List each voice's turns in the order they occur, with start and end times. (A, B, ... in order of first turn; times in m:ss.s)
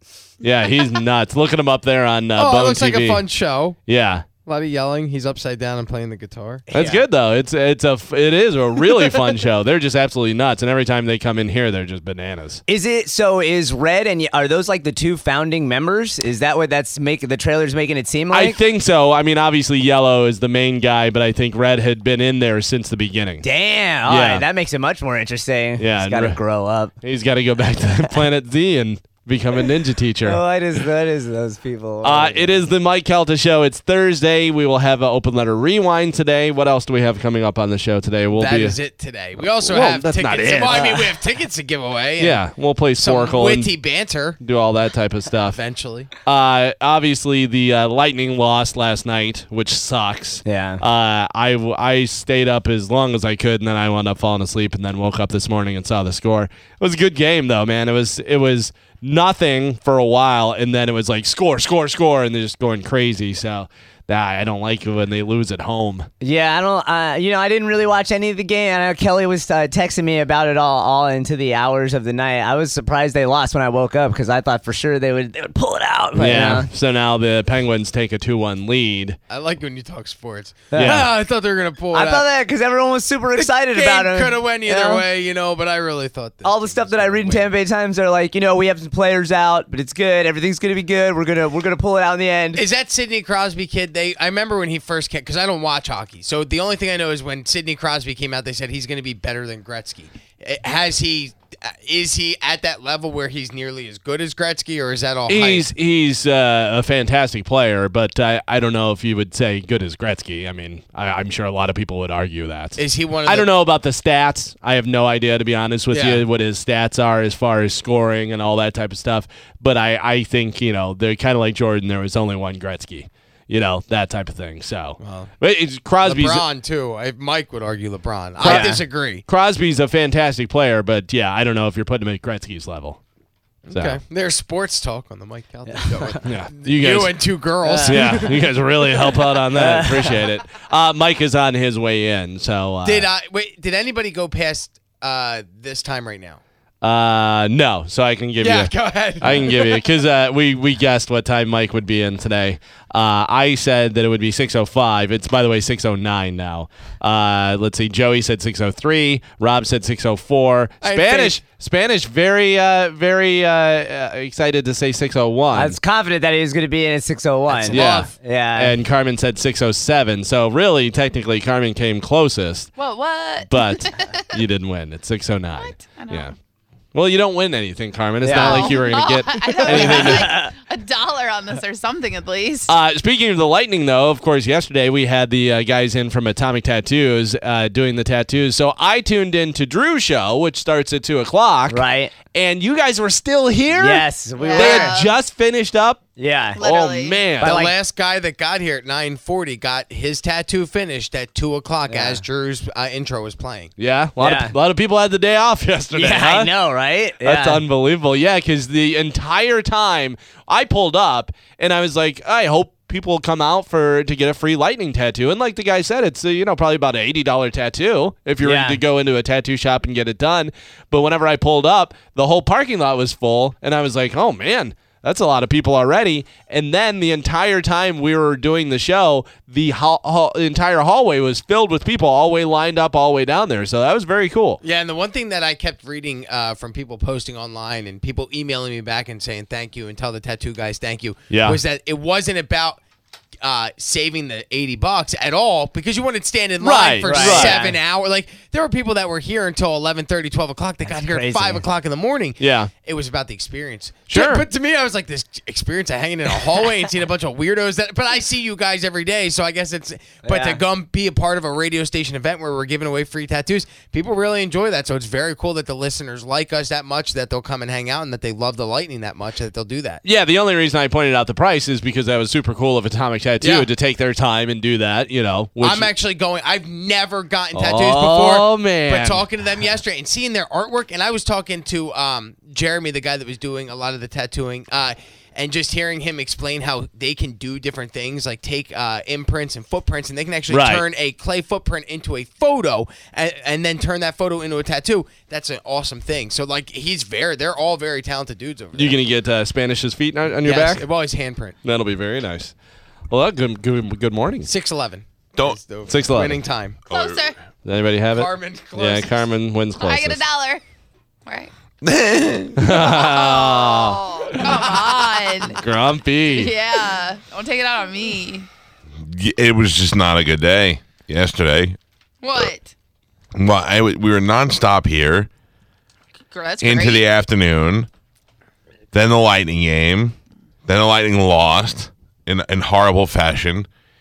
0:00.4-0:03.2 A
0:02.4-0:03.8 B
0:03.9-0:04.2 A
0:04.4-0:06.6 B
0:06.7-0:07.0 C
0:06.7-0:12.6 A
0:12.7-0:18.6 C
0:18.3-0:23.4 A
0:23.4-0:26.9 C
0:24.1-0:24.4 A
0:25.8-0:26.4 A
0:27.0-0:30.4 A
0:30.2-0:32.6 C
0:32.0-0:38.8 A
0:38.3-0:42.4 B
0:39.4-0:41.0 A
0:40.7-0:41.0 C
0:42.2-0:43.7 A
0:43.0-0:44.4 B
0:44.4-0:45.6 A
0:45.5-0:46.1 B
0:46.2-1:06.1 A
0:50.4-0:50.8 C
1:06.2-1:16.7 C
1:16.2-1:19.2 A
1:19.3-1:22.2 B
1:20.7-1:21.1 C
1:20.8-1:21.1 A
1:21.9-1:25.0 C
1:23.4-1:27.5 B
1:26.4-1:32.6 C
1:32.5-1:45.7 B
1:45.3-2:06.4 A
1:52.8-1:53.5 B
1:55.9-1:56.2 B
2:05.0-2:05.3 B
2:06.0-2:09.2 B
2:08.4-2:13.0 A
2:08.4-2:08.8 C
2:13.7-2:18.4 B
2:13.7-2:14.0 A
2:15.7-2:16.2 C
2:16.2-2:17.3 A
2:17.6-2:18.2 C
2:17.8-2:23.1 A
2:19.5-2:20.2 C
2:22.8-2:26.4 B
2:26.8-2:45.8 A
2:28.4-2:29.8 B
2:40.8-2:41.4 B
2:45.5-2:48.8 C
2:47.5-2:48.1 B
2:47.7-2:52.7 A
2:52.8-2:54.4 D
2:53.5-2:56.3 A
2:55.5-2:56.3 D
2:56.9-3:00.3 A
2:58.2-2:58.8 C
2:58.4-3:02.7 D
2:59.6-3:00.5 C
3:02.7-3:16.0 A
3:11.7-3:12.1 C
3:13.7-3:14.9 C
3:14.4-3:15.1 D
3:16.2-3:16.6 C
3:16.6-3:17.3 D
3:16.6-3:17.6 A
3:17.4-3:23.7 B
3:17.4-3:17.7 C
3:21.9-3:22.2 C
3:23.8-3:26.5 A
3:24.2-3:24.5 C
3:25.9-3:27.6 C
3:27.2-3:54.6 A
3:38.4-3:38.8 C
3:54.6-4:02.8 B
4:01.3-4:01.6 A
4:03.4-4:30.0 B
4:06.6-4:07.6 A
4:07.0-4:07.8 C
4:10.8-4:11.6 C
4:12.4-4:12.7 A
4:14.1-4:14.5 A
4:20.2-4:20.6 C
4:30.0-4:35.9 A
4:33.4-4:33.7 B
4:35.6-4:59.0 B
4:37.5-4:39.2 A
4:50.5-4:50.8 A
4:58.7-5:00.9 A
5:00.4-5:01.6 B
5:01.6-5:02.5 A
5:03.1-5:04.5 A
5:04.4-5:06.8 B
5:05.9-5:06.4 A
5:06.9-5:07.3 E
5:06.9-5:07.3 D
5:07.6-5:10.2 A
5:08.1-5:09.3 B
5:09.8-5:10.6 D
5:11.2-5:11.5 D
5:11.8-5:12.6 E
5:12.6-5:14.6 A
5:12.7-5:15.6 D
5:15.5-5:16.5 A
5:16.3-5:18.5 D
5:19.0-5:21.8 E
5:22.2-5:22.7 D
5:23.3-5:25.3 E
5:26.3-5:27.0 D
5:26.6-5:27.9 E
5:28.9-5:33.7 E